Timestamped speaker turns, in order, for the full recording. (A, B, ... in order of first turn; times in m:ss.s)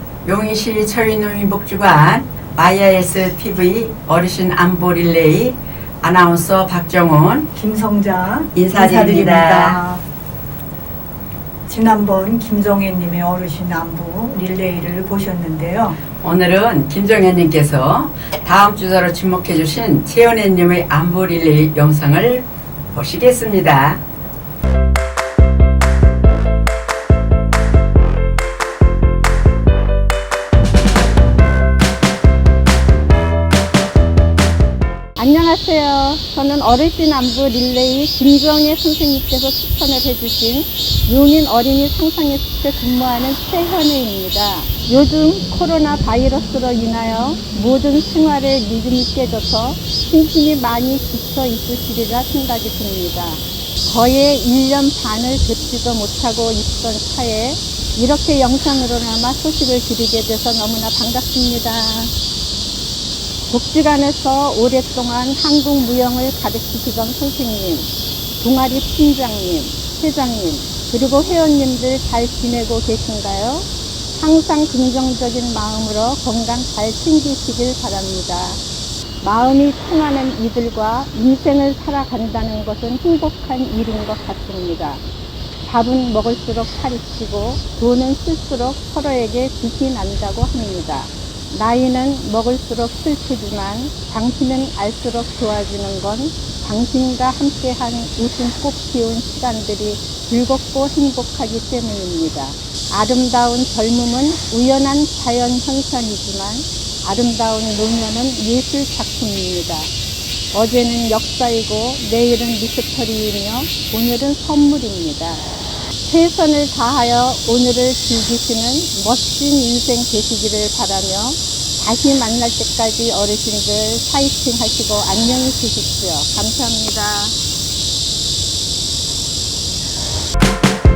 0:00.2-0:07.5 A
0:07.5-0:10.0 B
0:08.5-0:09.8 A
0:11.7-0:16.0 B
0:16.2-0:24.0 A
0:35.2-1:02.1 C
1:03.4-1:18.6 C
1:19.2-1:25.0 C
1:25.6-1:49.9 C
1:50.5-1:55.5 C
1:56.0-2:07.4 C